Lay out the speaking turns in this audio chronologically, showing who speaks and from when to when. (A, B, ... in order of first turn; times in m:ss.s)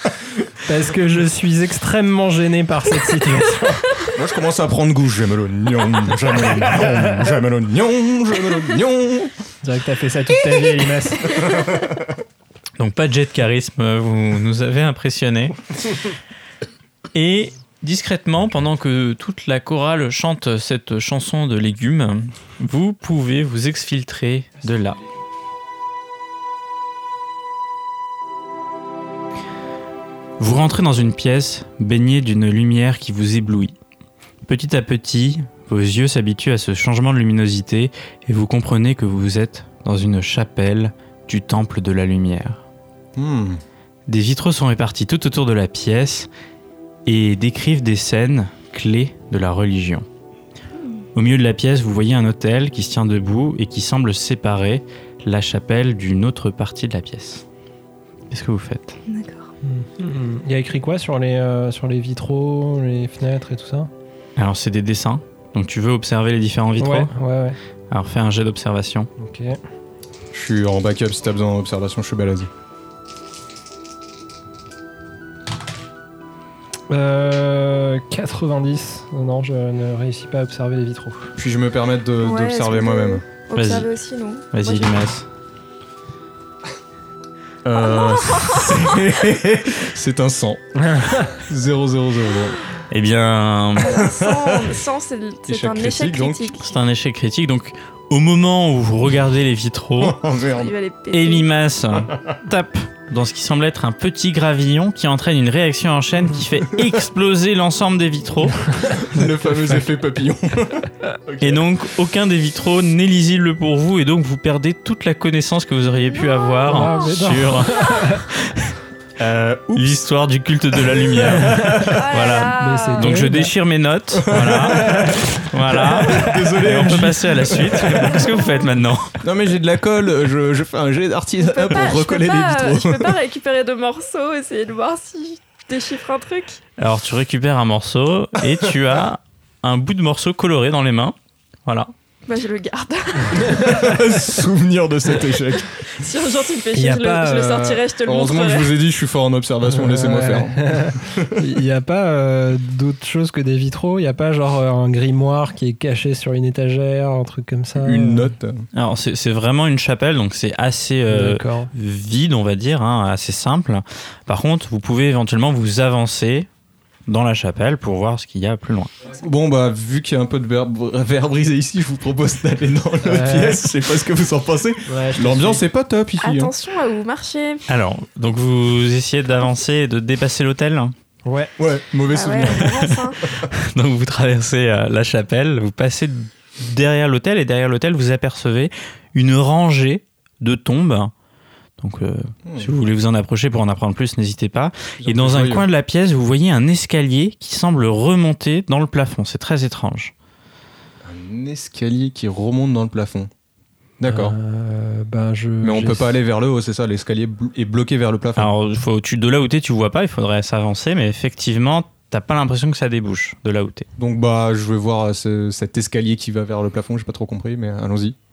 0:00.6-0:04.0 A
0:04.1-0:09.3 B
0:09.6-0:11.4 A
0:11.3-0:12.1 B
0:12.8-0:15.6 C
0:17.1-0:25.0 C
0:30.4-0:33.8 C
0:34.4-0:42.6 C
0:43.2-0:43.6 B
0:44.1-0:46.3 C
0:47.1-0:50.1 C
0:51.2-0:57.4 C
0:58.3-0:59.0 C
0:59.1-0:59.5 D
0:59.6-1:03.9 A
1:04.4-1:07.1 C
1:06.8-1:07.6 A
1:07.9-1:09.1 C
1:09.2-1:09.6 A
1:10.3-1:12.5 B
1:16.9-1:21.3 A
1:21.4-1:23.2 B
1:22.2-1:25.0 D
1:23.6-1:23.9 C
1:24.5-1:25.3 C
1:27.6-1:32.6 B
1:28.0-1:28.7 D
1:30.9-1:31.3 A
1:32.9-1:34.0 C
1:33.8-1:36.7 D
1:33.9-1:34.8 B
1:35.5-1:36.5 B
1:36.6-1:40.2 C
1:40.0-1:40.7 B
1:40.5-1:41.5 D
1:41.1-1:48.7 C
1:48.8-1:51.7 B
1:51.4-1:58.7 C
1:56.7-1:58.3 A
1:59.2-2:00.0 B
1:59.7-2:09.2 C
2:00.8-2:02.0 B
2:01.9-2:03.2 D
2:02.6-2:03.5 A
2:04.3-2:08.2 B
2:09.2-2:13.2 B
2:11.4-2:16.6 D
2:16.8-2:21.2 C
2:21.7-2:21.9 C
2:22.3-2:23.8 D
2:23.5-2:25.9 B
2:25.9-2:28.7 D
2:26.7-2:27.9 A
2:28.0-2:31.4 B
2:29.7-2:38.3 A
2:37.8-2:38.6 B
2:38.8-2:46.5 C
2:41.1-2:41.7 A
2:47.1-2:48.9 C
2:49.1-2:56.5 B
2:53.0-2:53.6 A
2:54.9-2:55.6 A
2:56.2-2:57.6 D
2:57.7-3:00.9 C
3:01.3-3:01.5 A
3:01.6-3:02.9 B
3:02.1-3:03.2 D
3:02.6-3:11.1 C
3:11.8-3:20.1 C
3:12.5-3:12.7 B
3:15.0-3:15.7 B
3:21.0-3:23.3 B
3:24.0-3:24.4 B
3:24.1-3:26.2 A
3:25.6-3:28.5 B
3:28.4-3:33.9 C
3:34.0-3:38.2 B